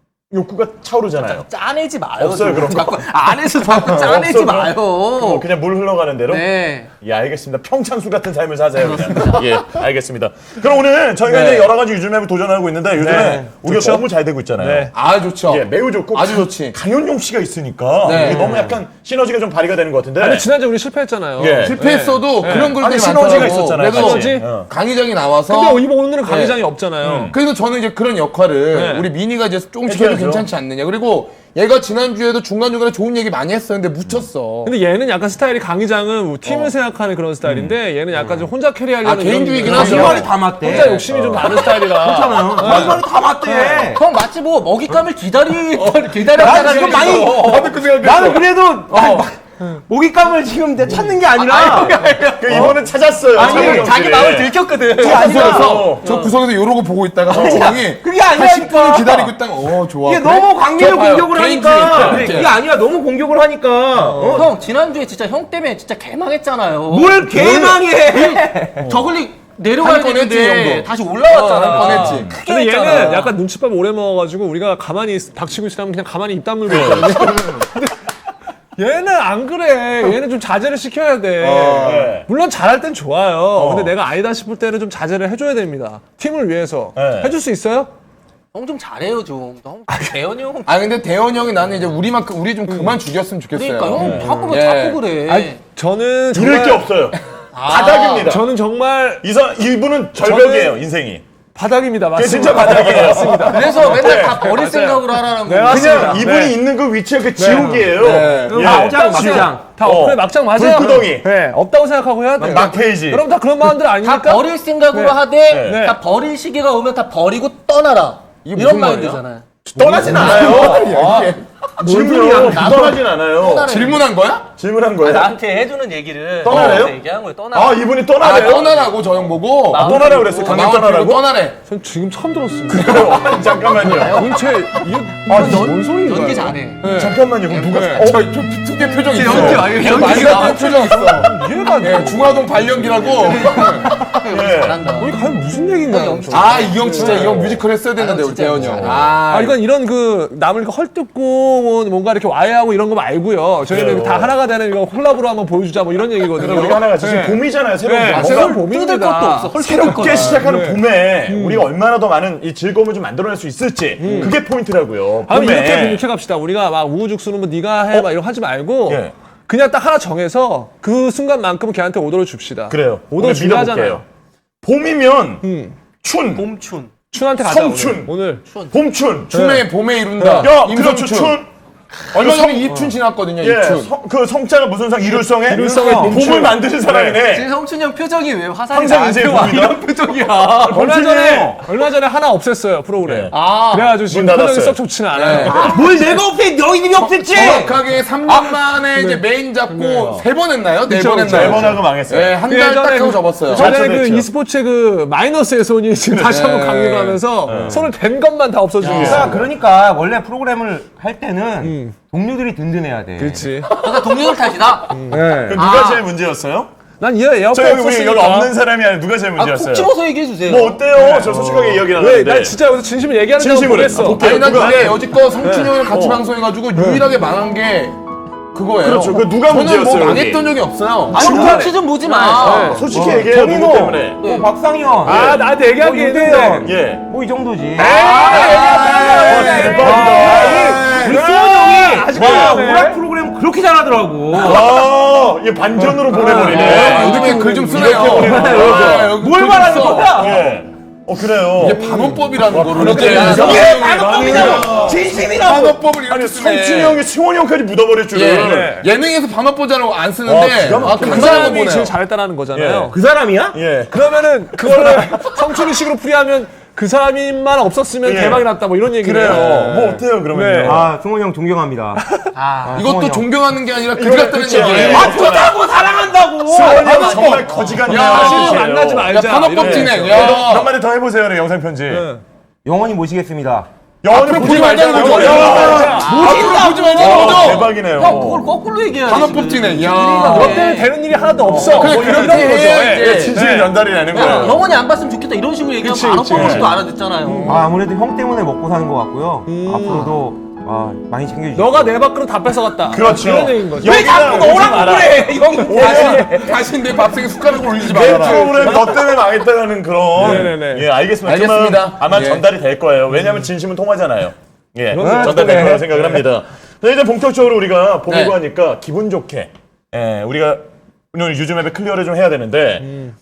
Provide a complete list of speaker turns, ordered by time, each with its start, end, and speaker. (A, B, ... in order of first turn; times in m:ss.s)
0:00.3-0:01.5 A
0:01.2-0:05.5 B
0:02.2-0:14.9 A
0:06.3-0:06.9 B
0:08.8-0:09.6 B
0:11.3-0:11.7 C
0:13.0-0:14.0 D
0:13.1-0:13.5 E
0:14.6-0:14.9 D
0:14.9-0:16.8 C
0:15.5-0:20.5 A
0:18.0-0:18.7 C
0:18.2-0:18.8 E
0:20.2-0:22.8 D
0:21.4-0:21.8 A
0:21.6-0:26.6 C
0:22.4-0:24.7 A
0:23.1-0:23.5 E
0:23.5-0:24.5 D
0:25.5-0:27.4 D
0:27.0-0:27.4 A
0:27.3-0:34.7 C
0:28.7-0:29.1 D
0:29.9-0:30.5 A
0:34.6-0:43.9 D
0:36.5-0:36.7 C
0:39.0-0:40.3 C
0:39.6-0:44.0 E
0:39.7-0:40.2 A
0:40.8-0:41.6 A
0:42.6-0:42.9 A
0:43.9-0:47.6 B
0:46.3-0:52.8 E
0:46.4-0:49.2 C
0:51.0-0:56.4 B
0:52.4-0:56.1 A
0:53.4-0:54.0 E
0:55.0-1:02.6 C
0:57.3-1:04.5 E
0:57.3-0:57.8 A
1:01.9-1:02.4 A
1:04.0-1:04.5 D
1:04.3-1:13.4 B
1:06.9-1:08.9 E
1:07.4-1:07.8 D
1:08.8-1:09.1 A
1:09.8-1:12.3 C
1:11.8-1:17.9 D
1:12.0-1:12.4 A
1:16.7-1:17.6 A
1:18.8-1:27.9 D
1:21.4-1:22.1 C
1:21.8-1:22.3 A
1:23.6-1:23.9 A
1:27.0-1:27.3 A
1:28.5-1:30.7 B
1:29.9-1:30.2 D
1:30.7-1:35.0 C
1:32.7-1:33.0 D
1:33.5-1:35.6 B
1:34.0-1:34.3 A
1:35.2-1:36.9 D
1:36.3-1:38.5 A
1:37.5-1:38.4 B
1:38.2-1:39.2 D
1:39.2-1:41.2 A
1:40.2-1:40.8 D
1:41.6-1:46.6 D
1:42.2-1:44.5 A
1:43.3-1:46.3 B
1:45.7-1:51.3 A
1:47.4-1:56.0 D
1:47.4-1:49.7 E
1:48.0-1:48.9 C
1:48.8-1:49.4 B
1:52.4-1:53.3 A
1:52.4-1:52.7 C
1:54.0-1:59.4 B
1:55.5-1:55.9 A
1:58.4-1:59.2 C
1:59.7-2:02.8 D
1:59.8-2:01.0 A
1:59.8-2:01.4 C
2:00.2-2:01.1 B
2:01.8-2:03.7 A
2:01.8-2:04.0 B
2:03.7-2:04.5 C
2:04.6-2:05.4 A
2:05.0-2:08.6 B
2:06.4-2:07.0 A
2:06.5-2:06.9 C
2:07.5-2:08.8 A
2:08.2-2:11.6 C
2:09.7-2:10.7 B
2:09.7-2:11.2 A
2:11.7-2:13.1 D
2:12.7-2:14.3 A
2:12.9-2:14.6 B
2:13.8-2:16.6 D
2:15.2-2:16.8 B
2:15.3-2:15.8 A
2:16.8-2:23.9 C
2:16.8-2:18.2 A
2:17.5-2:18.0 B
2:19.1-2:21.1 B
2:19.2-2:20.3 A
2:19.4-2:23.6 D
2:23.1-2:25.2 B
2:24.2-2:24.8 A
2:24.9-2:27.4 D
2:25.8-2:29.0 B
2:26.3-2:29.6 C
2:27.0-2:27.6 A
2:28.7-2:29.1 A
2:29.3-2:41.7 D
2:33.7-2:34.3 A
2:36.3-2:38.6 A
2:38.1-2:40.4 B
2:39.6-2:46.0 A
2:44.0-2:44.4 D
2:45.3-2:54.0 D
2:48.9-2:49.1 A
2:52.7-2:54.0 A
2:54.6-2:55.4 A
2:55.4-2:55.8 D
2:56.0-2:56.5 A
2:56.3-2:56.9 B
2:57.1-2:58.4 D
2:57.4-2:58.1 A
2:58.5-2:58.7 B
2:58.7-2:59.5 A
2:59.3-3:01.4 C
2:59.3-2:59.6 D
3:00.2-3:00.5 D
3:00.4-3:01.5 A
3:02.1-3:03.9 C
3:02.1-3:07.5 A
3:05.5-3:06.6 D
3:05.6-3:06.2 E
3:06.9-3:10.9 B
3:08.7-3:09.9 A
3:10.6-3:11.6 A
3:10.6-3:16.1 D
3:13.0-3:13.3 A
3:13.3-3:13.9 B
3:14.1-3:14.8 A
3:15.1-3:15.7 C
3:15.4-3:15.7 A
3:15.4-3:17.8 E
3:17.3-3:23.9 C
3:17.3-3:17.6 D
3:18.3-3:20.2 D
3:20.9-3:21.8 D
3:21.3-3:22.4 A
3:22.5-3:29.5 D
3:23.5-3:24.3 A
3:26.1-3:26.4 A
3:26.2-3:27.2 C
3:27.5-3:27.8 A
3:27.5-3:27.8 E
3:28.8-3:29.2 B
3:28.8-3:29.4 A
3:28.9-3:33.5 E
3:31.6-3:32.0 D
3:33.2-3:33.9 D
3:33.7-3:36.1 B
3:34.9-3:35.5 D
3:35.1-3:35.6 E
3:35.2-3:36.7 A
3:37.0-3:38.5 D
3:37.5-3:39.9 A
3:39.4-3:40.9 B
3:40.4-3:42.6 A
3:40.9-3:45.8 D
3:43.4-3:45.0 A
3:44.2-3:48.0 C
3:45.9-3:46.2 A
3:46.8-3:47.0 D
3:48.5-3:51.4 C
3:48.8-3:50.5 A
3:51.1-3:51.8 A
3:51.1-3:52.9 B
3:51.1-4:04.8 E
3:52.4-3:52.9 D
3:52.4-3:54.2 A
3:54.2-3:54.5 B
3:55.0-3:56.7 D
3:55.0-3:55.4 A
3:56.6-3:57.0 A
3:57.8-4:03.0 D
3:57.8-3:59.6 C
3:58.1-3:59.1 B
3:59.2-4:01.2 A
4:02.2-4:02.6 A
4:04.3-4:09.2 A
4:05.9-4:08.6 D
4:06.1-4:10.5 E
4:06.3-4:10.4 C
4:10.1-4:11.8 A
4:11.6-4:17.0 C
4:11.7-4:12.2 D
4:12.5-4:15.1 A
4:12.7-4:15.8 E
4:14.4-4:14.7 D
4:16.1-4:18.8 A
4:18.1-4:21.9 C
4:18.3-4:18.9 D
4:20.3-4:21.6 A
4:20.8-4:23.0 D
4:22.5-4:22.9 A
4:22.9-4:23.6 E
4:23.5-4:25.2 A
4:23.9-4:30.8 D
4:28.0-4:30.9 A
4:29.2-4:30.0 C
4:30.6-4:32.0 E
4:32.0-4:32.3 D
4:32.3-4:32.8 B
4:32.6-4:33.3 E
4:32.7-4:35.4 C
4:34.0-4:35.6 A
4:34.1-4:35.0 D
4:34.6-4:37.0 E
4:36.5-4:42.1 A
4:36.6-4:37.9 B
4:36.6-4:40.3 D
4:37.8-4:40.7 C
4:41.9-4:42.2 D
4:42.6-4:43.7 E
4:44.0-4:46.4 A
4:44.1-4:47.7 C
4:44.4-4:47.6 D
4:45.0-4:46.0 E
4:45.2-4:51.0 B
4:46.9-4:48.5 A
4:49.1-4:50.7 C
4:49.9-4:53.8 D
4:51.5-4:54.6 A
4:51.5-4:53.4 C
4:54.1-4:57.6 B
4:55.8-4:57.6 D
4:56.3-4:56.8 A
4:57.4-5:01.9 E
4:59.5-5:00.2 D
5:01.5-5:05.1 D
5:02.9-5:06.4 A
5:03.8-5:06.3 B
5:03.8-5:06.6 E
5:05.7-5:08.9 C
5:07.8-5:22.9 A
5:08.0-5:09.0 E
5:10.2-5:10.9 D
5:11.2-5:12.4 C
5:14.9-5:15.7 D
5:15.0-5:16.2 E
5:18.1-5:18.4 C
5:22.9-5:23.1 D